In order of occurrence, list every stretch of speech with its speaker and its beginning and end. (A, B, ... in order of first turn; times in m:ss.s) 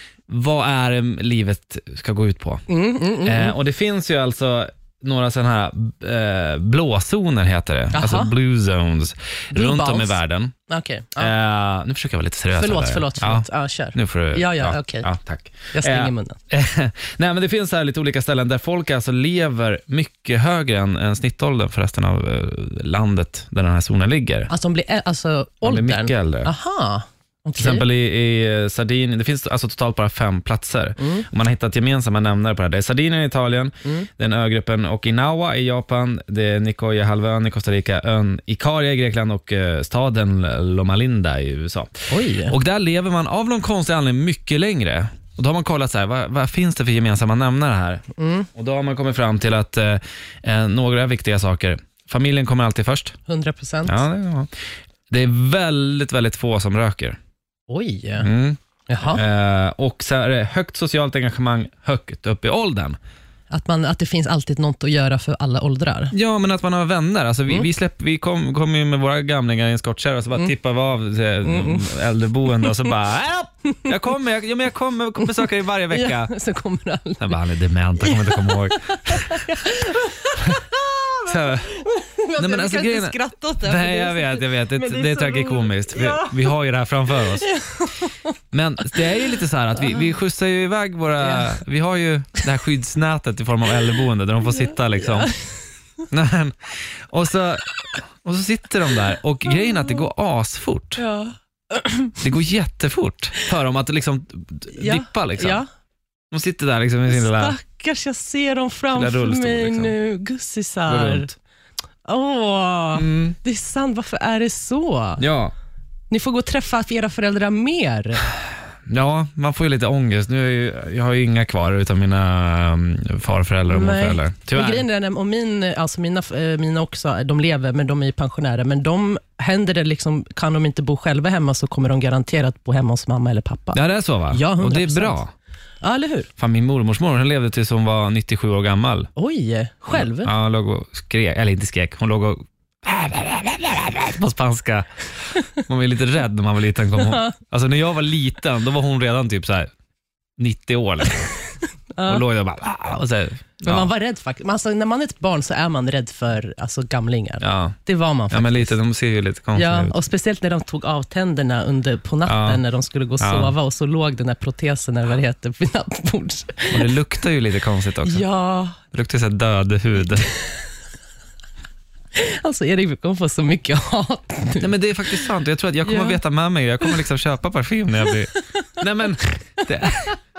0:00.3-0:02.6 A
0:02.7-0:03.6 B
0:03.2-0:10.5 A
0:07.9-0:08.3 B
0:09.5-0:11.3 B
0:11.2-0:24.5 A
0:12.6-0:15.1 B
0:15.7-0:16.4 B
0:24.5-0:27.8 B
0:25.6-0:26.5 A
0:27.6-0:41.9 A
0:31.0-0:31.2 B
0:42.1-0:42.5 B
0:42.4-0:53.1 A
0:48.2-0:48.5 B
0:53.3-0:54.0 B
0:53.8-0:54.5 A
0:55.1-0:57.2 A
0:57.7-0:58.3 B
0:58.2-0:58.6 A
0:58.9-0:59.2 B
0:59.1-1:03.0 A
1:03.5-1:06.1 B
1:06.1-1:16.3 A
1:11.4-1:11.9 B
1:12.6-1:12.9 B
1:15.9-1:17.4 B
1:17.2-1:19.4 A
1:18.0-1:26.5 B
1:21.2-1:21.8 A
1:22.4-1:27.5 A
1:27.2-1:28.3 B
1:28.5-1:35.3 A
1:28.9-1:30.1 B
1:31.2-1:31.6 B
1:35.0-1:35.3 B
1:36.1-1:37.7 A
1:38.2-1:41.0 A
1:41.0-1:42.2 B
1:42.2-1:45.6 A
1:44.8-1:45.6 B
1:46.3-1:47.6 A
1:47.1-1:51.3 B
1:48.9-1:50.0 A
1:50.9-1:51.3 A
1:52.0-1:55.2 B
1:52.9-1:53.4 A
1:55.2-1:55.5 A
1:56.1-1:58.2 B
1:58.9-2:04.8 A
2:03.7-2:13.8 B
2:13.7-2:15.3 A
2:14.3-2:15.2 B
2:15.8-2:16.3 B
2:16.4-2:19.1 A
2:19.2-2:20.3 B
2:19.9-2:24.9 A
2:25.6-2:29.7 A
2:27.0-2:27.4 B
2:30.4-2:31.3 A
2:31.9-2:32.2 B
2:32.0-2:33.9 A
2:33.6-2:38.7 B
2:37.4-2:37.8 A
2:38.3-2:39.9 A
2:39.5-2:46.9 B
2:42.2-2:42.6 A
2:43.2-2:43.5 A
2:46.7-2:48.2 A
2:48.0-2:48.8 B
2:48.9-2:50.3 A
2:52.1-2:55.2 B
2:54.6-3:00.1 A
2:55.8-2:56.2 B
2:58.1-2:58.8 B
2:59.6-3:00.1 B